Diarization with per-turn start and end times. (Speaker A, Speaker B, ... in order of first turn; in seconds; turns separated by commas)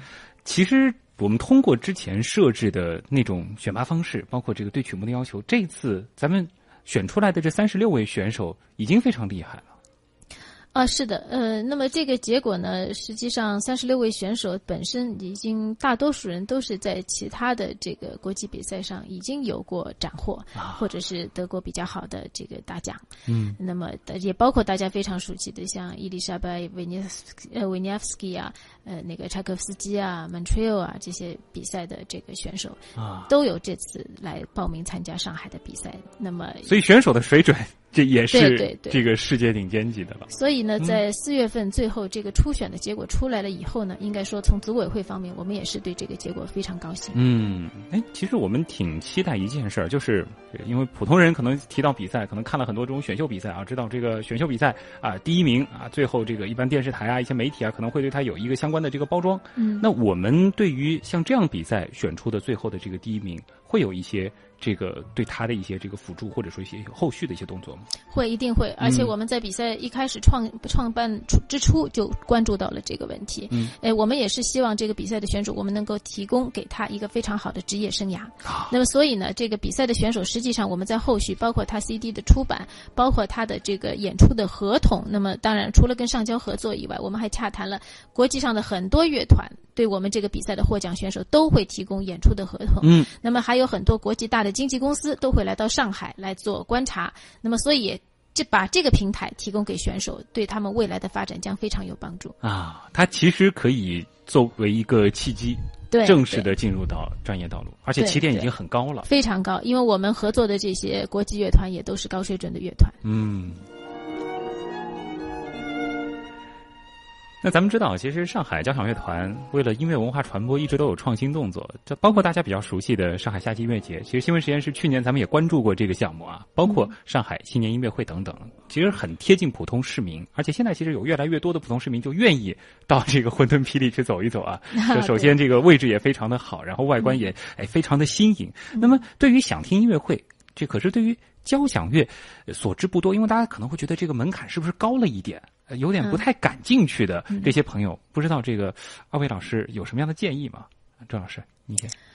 Speaker A: 0.4-9.7, Speaker B: 10.7-23.1, Speaker A: 20.6-20.8, Speaker A: 23.3-23.6, Speaker B: 23.6-36.8, Speaker A: 33.0-33.3, Speaker A: 36.6-41.0, Speaker B: 38.3-39.1, Speaker B: 40.3-47.2, Speaker A: 47.1-67.8, Speaker B: 59.6-59.9, Speaker B: 68.1-102.3, Speaker A: 68.8-69.1, Speaker A: 78.4-78.7, Speaker A: 92.8-93.1, Speaker A: 102.4-109.1, Speaker B: 105.9-106.5, Speaker B: 108.0-108.5, Speaker B: 109.0-113.0, Speaker A: 113.0-113.7, Speaker A: 117.4-151.9, Speaker B: 134.7-135.3, Speaker B: 137.0-137.3